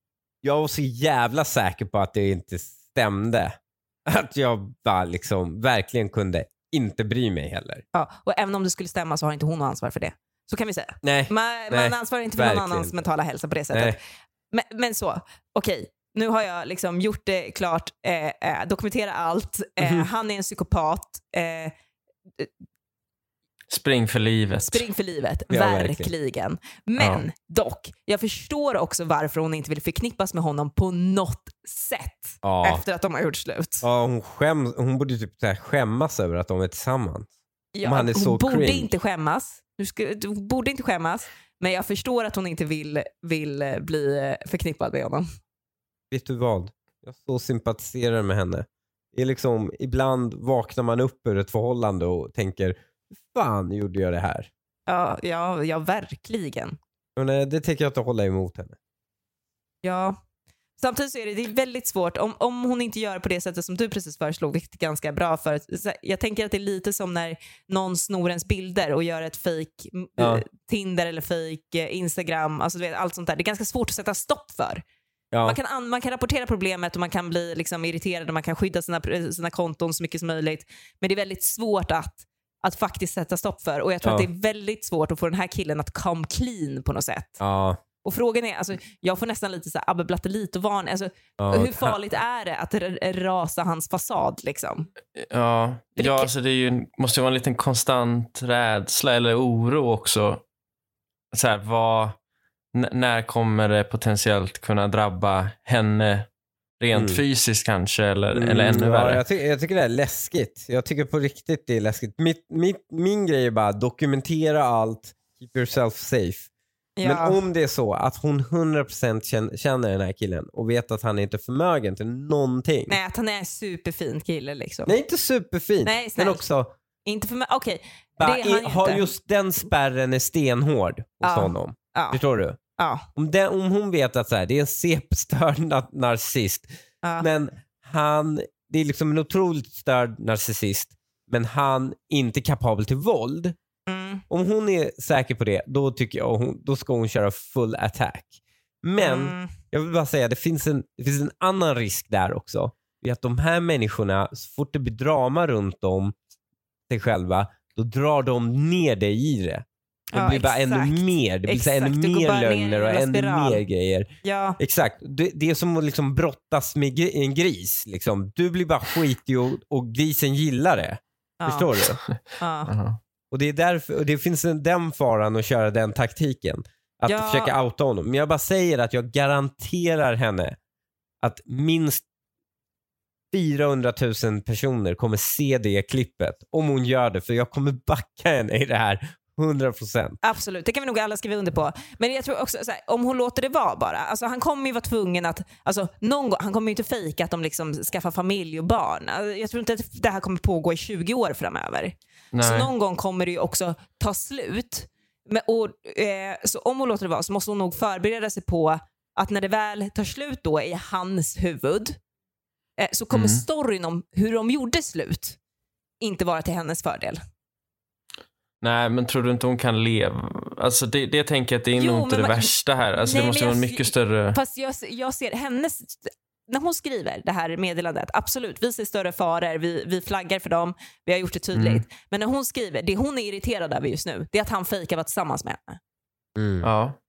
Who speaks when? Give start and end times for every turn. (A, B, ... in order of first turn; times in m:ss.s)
0:00.4-0:07.8 A
0:07.9-0:14.0 B
0:11.0-0:13.0 A
0:13.7-0:14.0 A
0:14.5-0:21.7 B
0:19.8-0:20.1 A
0:23.7-0:24.8 C
0:24.6-0:33.9 B
0:25.5-0:26.1 A
0:27.0-0:27.2 C
0:32.4-0:32.8 A
0:33.8-0:37.3 A
0:37.8-0:45.3 B
0:37.8-0:38.9 A
0:46.1-0:52.8 A
0:53.3-0:54.5 A
0:54.9-0:56.8 B
0:57.2-0:58.8 A
0:59.8-1:00.2 B
1:00.8-1:14.8 B
1:10.2-1:10.4 A
1:15.3-1:15.6 A
1:15.4-1:27.4 B
1:27.4-1:27.8 A
1:28.0-1:34.9 B
1:31.4-1:32.0 A
1:35.2-1:40.4 C
1:36.0-1:36.3 B
1:41.3-1:42.2 C
1:42.7-1:46.3 C
1:46.8-1:49.2 C
1:46.9-1:47.2 A
1:48.3-1:56.5 A
1:57.0-1:57.4 B
1:57.0-2:03.0 A
2:02.9-2:05.0 B
2:04.9-2:06.7 A
2:05.8-2:06.4 B
2:07.0-2:09.1 B
2:08.2-2:12.6 A
2:11.2-2:12.2 B
2:12.8-2:13.1 B
2:13.2-2:16.7 A
2:17.0-2:17.3 B
2:17.2-2:23.6 A
2:23.9-2:24.2 B
2:24.3-2:28.3 A
2:28.8-2:36.2 A
2:29.0-2:29.5 B
2:36.9-2:44.1 A
2:40.1-2:43.6 B
2:44.2-2:44.6 B
2:44.6-2:52.0 A
2:51.4-2:51.7 B
2:52.4-2:52.7 B
2:52.7-2:53.0 C
2:53.3-3:00.6 A
2:57.1-2:57.5 B
3:01.2-3:02.0 A
3:03.3-3:10.2 A
3:10.2-3:32.0 B
3:22.3-3:22.7 C
3:32.8-3:35.4 B
3:33.1-3:33.4 C
3:36.0-3:37.2 B
3:38.6-3:44.4 C
3:41.8-3:55.8 B
3:51.5-3:51.8 C
3:56.4-3:56.7 A
3:56.6-3:57.0 C